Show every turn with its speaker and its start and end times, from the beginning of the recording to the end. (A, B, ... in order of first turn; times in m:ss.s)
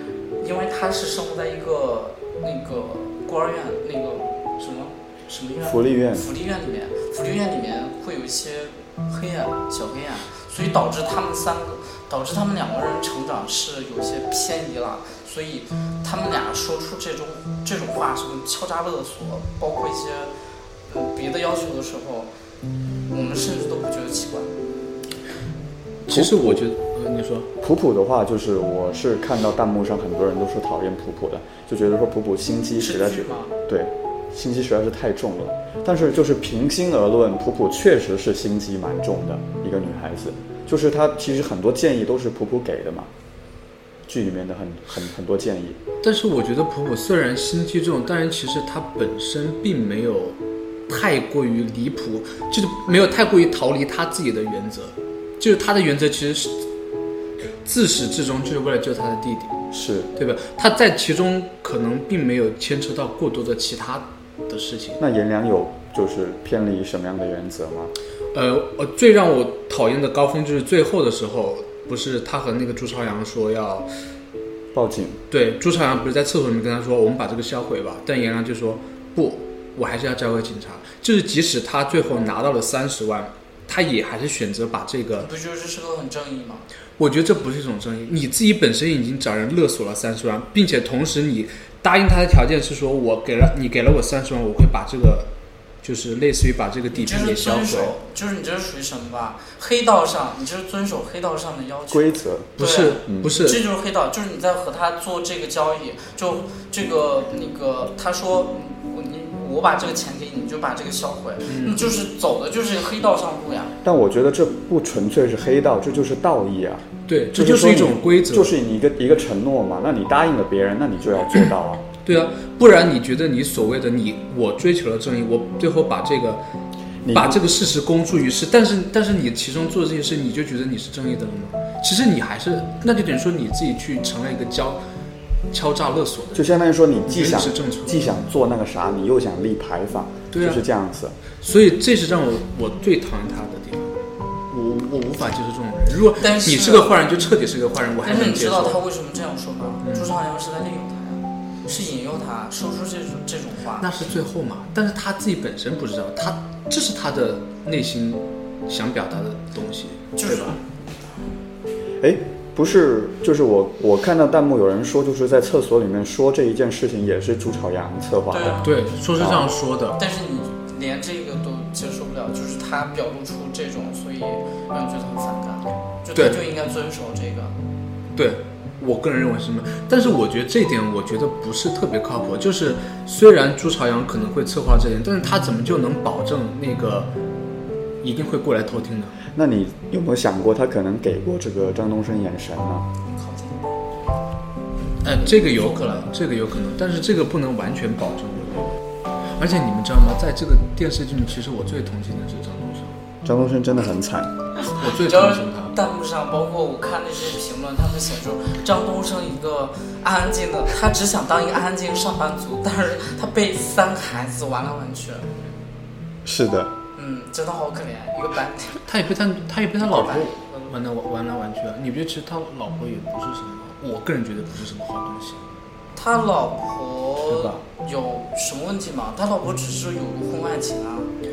0:00.4-0:20.3 A
0:05.6-0:06.2 B
0:20.9-0:22.3 A
0:23.1-0:24.5 A
0:26.0-0:27.5 C
0:26.1-0:26.6 B
0:27.6-0:43.1 B
0:32.8-0:33.5 A
0:44.1-0:45.8 B
0:46.0-0:50.4 C
0:50.9-0:56.6 C
0:57.6-0:59.6 C
0:59.7-1:00.1 B
1:00.2-1:05.0 C
1:05.0-1:07.9 B
1:08.3-1:13.9 C
1:14.7-1:15.2 B
1:15.3-1:25.3 C
1:25.2-1:26.6 A
1:27.0-1:35.3 C
1:35.8-1:37.9 C
1:36.9-1:53.7 A
1:41.9-1:42.6 B
1:42.6-1:43.6 C
1:43.1-1:43.3 B
1:51.5-1:51.9 C
1:53.8-2:01.8 B
1:57.1-1:58.5 C
2:02.0-2:06.4 C
2:07.0-2:07.4 B
2:07.1-2:14.8 C
2:15.5-2:16.5 C
2:16.3-2:21.2 B
2:17.1-2:17.9 C
2:20.3-2:20.6 C
2:21.4-2:24.0 C
2:24.5-2:28.8 C
2:26.2-2:27.0 A
2:28.0-2:33.9 A
2:29.8-2:30.2 C
2:33.8-2:40.6 C
2:40.2-2:40.6 A
2:42.0-2:49.5 B
2:48.3-2:48.8 A
2:48.6-2:50.0 C
2:50.0-2:57.5 A
2:56.1-2:56.4 C
2:58.2-3:07.1 C
3:08.0-3:09.2 C
3:09.3-3:12.9 B
3:13.1-3:13.8 A
3:15.0-3:18.7 C
3:19.4-3:23.0 C
3:23.2-3:24.3 B
3:24.7-3:35.3 A
3:24.8-3:25.8 C
3:36.2-3:36.7 B
3:37.0-3:38.8 A
3:38.8-3:45.4 C
3:39.8-3:40.7 A
3:46.0-3:51.1 A
3:47.3-3:47.6 C